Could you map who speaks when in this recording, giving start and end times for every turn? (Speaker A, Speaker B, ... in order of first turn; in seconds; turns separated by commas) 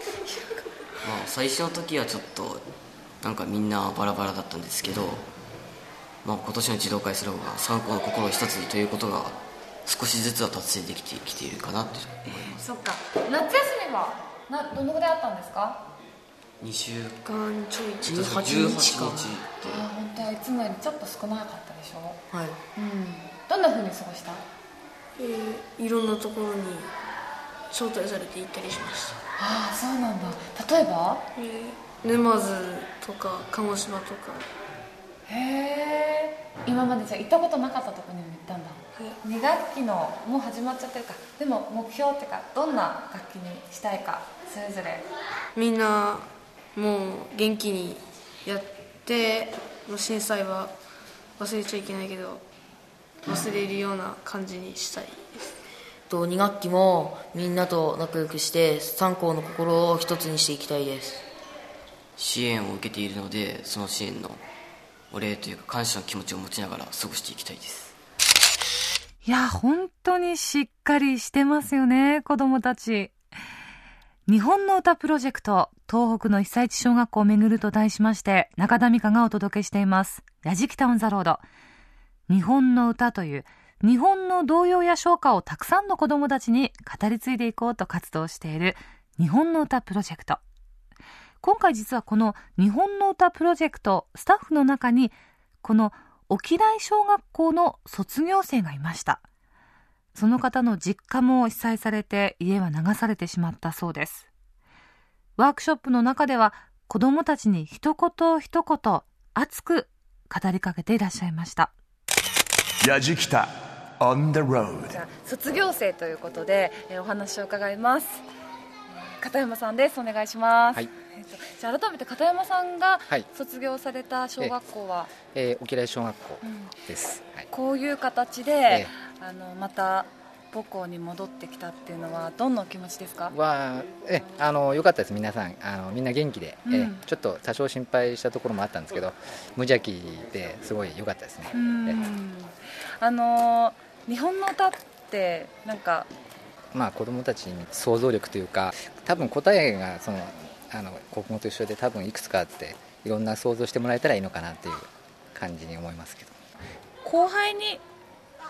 Speaker A: 1.0-2.6, Speaker A: 3.2-5.3, Speaker A: 6.2-12.6, Speaker B: 12.3-15.8, Speaker A: 16.6-17.2, Speaker C: 17.2-18.2, Speaker A: 18.0-19.9, Speaker D: 18.0-19.3, Speaker B: 19.6-22.2, Speaker D: 22.3-22.6, Speaker B: 22.7-24.4, Speaker C: 25.1-26.9, Speaker C: 27.7-29.2, Speaker B: 29.4-31.2, Speaker C: 31.3-34.5, Speaker B: 35.3-45.0, Speaker C: 45.5-50.7, Speaker C: 51.4-52.4, Speaker C: 53.2-55.4, Speaker D: 56.1-61.2, Speaker A: 62.2-64.4, Speaker A: 65.1-67.9, Speaker E: 69.2-73.1, Speaker E: 74.3-81.4, Speaker E: 82.3-90.4, Speaker E: 91.4-99.2, Speaker E: 100.1-104.3, Speaker E: 105.4-111.7, Speaker F: 112.8-115.0, Speaker B: 114.8-118.2, Speaker B: 118.9-125.1, Speaker G: 125.2-127.5, Speaker B: 126.4-126.7, Speaker B: 127.5-133.3, Speaker G: 133.3-142.0, Speaker B: 136.6-137.0, Speaker B: 141.5-146.1, Speaker G: 146.7-156.4, Speaker B: 157.0-157.8